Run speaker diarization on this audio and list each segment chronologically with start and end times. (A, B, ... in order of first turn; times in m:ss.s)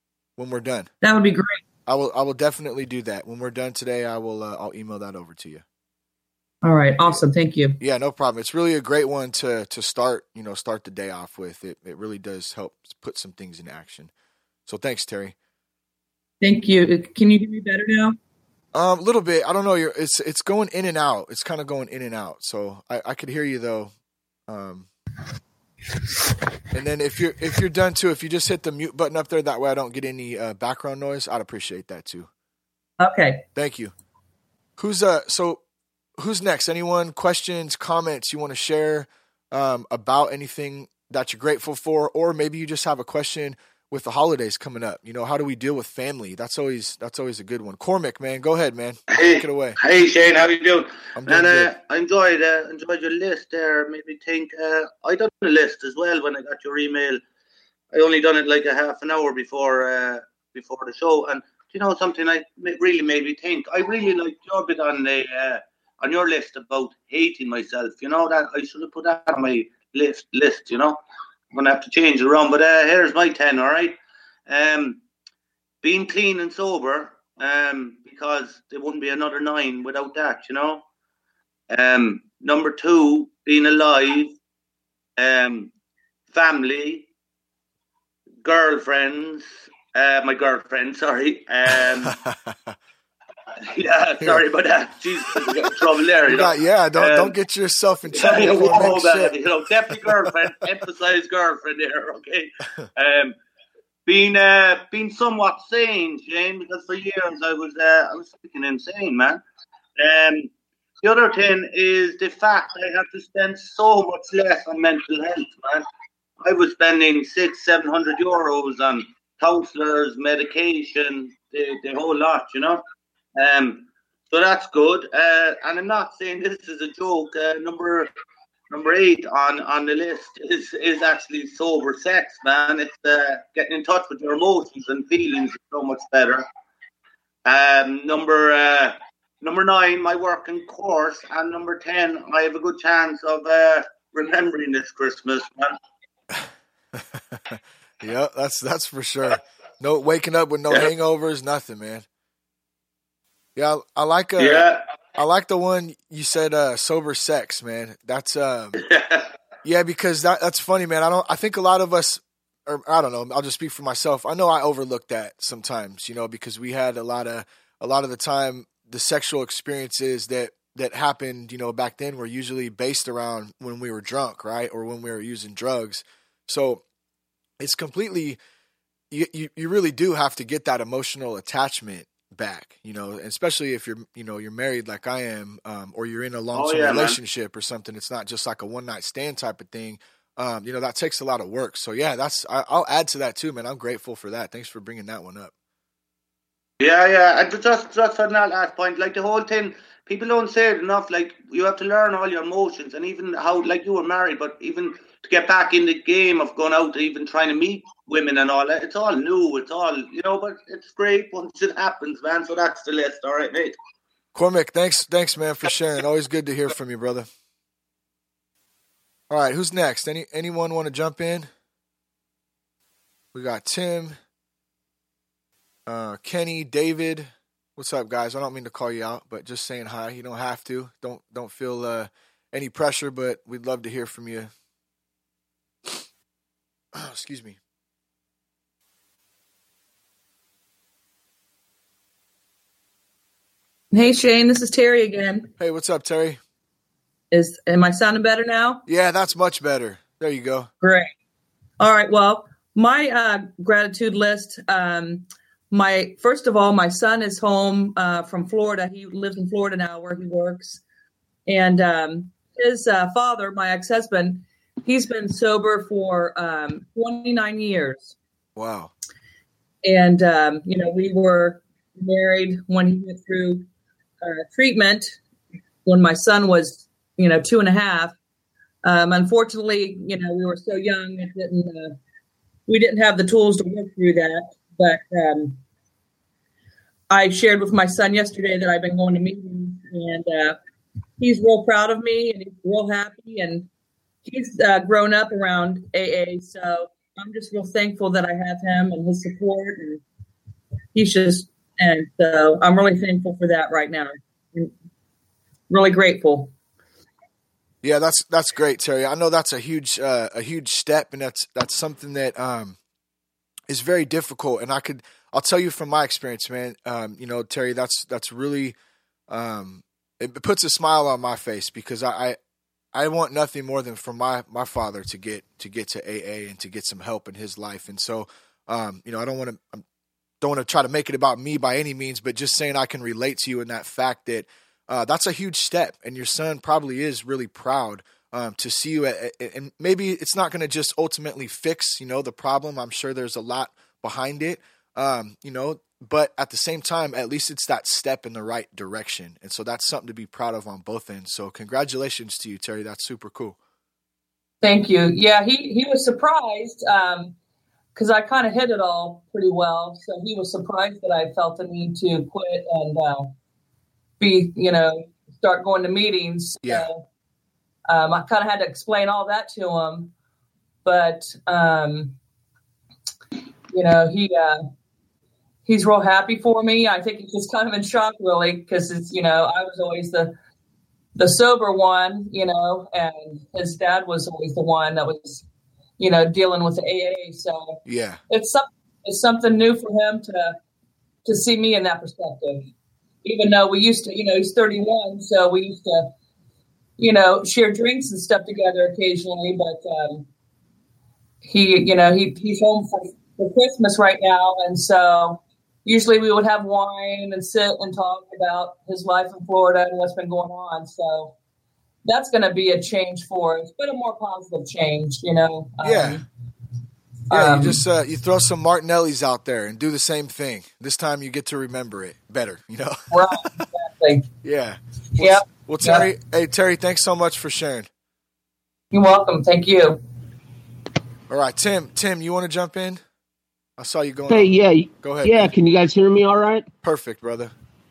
0:00.4-0:00.9 A
0:01.0-0:01.6 B
0:01.9-0:05.6 A
0:06.6-0:07.8 B
0:07.8-0:14.1 A
0:14.6-0:15.3 A
0:16.4-0:18.2 B
0:18.7-0:23.9 A
0:24.5-0:24.9 A
0:26.7-0:32.3 A
0:33.0-0:33.4 B
0:33.5-0:33.9 A
0:34.8-0:35.6 A
0:36.2-0:49.8 A
0:49.1-0:57.2 C
0:51.1-0:51.7 A
0:57.9-1:11.0 C
1:11.5-1:14.0 C
1:14.5-1:15.0 C
1:15.8-1:20.8 C
1:21.7-1:24.4 C
1:25.2-1:25.7 C
1:26.3-1:27.1 C
1:28.4-1:32.2 C
1:31.7-1:32.7 A
1:33.6-1:37.3 C
1:35.3-1:35.7 A
1:36.2-1:39.4 A
1:38.1-1:43.3 C
1:39.9-1:40.3 A
1:44.0-1:49.4 C
1:50.0-1:50.5 C
1:51.0-1:55.8 C
1:56.4-2:02.8 C
2:03.4-2:08.1 C
2:08.7-2:16.4 C
2:17.4-2:25.7 C
2:26.3-2:32.0 A
2:33.6-2:38.8 A
2:34.4-2:34.8 C
2:38.8-2:39.3 C
2:39.6-2:56.8 A
2:57.6-2:58.4 A
2:59.1-3:15.5 A
3:06.5-3:07.2 C
3:16.8-3:33.8 C
3:34.3-3:37.2 A
3:39.3-3:41.5 A
3:43.3-3:44.1 A
3:45.8-3:54.5 A
3:56.9-3:57.6 A
4:03.9-4:05.5 B
4:05.6-4:06.4 A
4:07.3-4:08.8 B
4:08.9-4:10.7 A
4:10.8-4:11.1 B
4:11.8-4:20.8 B
4:21.4-4:28.2 B
4:28.6-4:28.9 A
4:29.8-4:33.6 B
4:34.2-4:35.2 B
4:35.8-4:38.2 B
4:38.8-4:42.0 B
4:42.7-4:45.6 B
4:47.1-4:50.6 B
4:51.2-4:53.7 B
4:54.2-5:00.0 B
5:00.9-5:04.7 B
5:05.7-5:06.5 B
5:07.8-5:12.8 A
5:13.7-5:18.7 A
5:19.3-5:22.4 A
5:22.9-5:29.8 A
5:30.4-5:53.6 A
5:54.6-5:57.3 B
5:57.9-6:03.3 B
6:04.2-6:07.0 B
6:06.6-6:06.9 A
6:07.9-6:10.1 B
6:10.8-6:12.2 B
6:13.7-6:14.6 B
6:15.6-6:20.3 B
6:21.2-6:25.4 B
6:26.0-6:30.6 B
6:27.8-6:28.2 A
6:31.2-6:32.7 B
6:33.2-6:36.1 B
6:37.0-6:40.2 B
6:41.4-6:51.3 B
6:52.0-6:56.2 B
6:55.8-6:56.2 A
6:57.3-6:57.8 B
6:57.3-7:03.6 A
7:03.1-7:04.3 B
7:04.4-7:07.9 A
7:05.2-7:06.1 B
7:08.9-7:10.0 B
7:11.3-7:13.0 A
7:13.8-7:15.5 A
7:14.3-7:16.7 D
7:16.8-7:17.5 A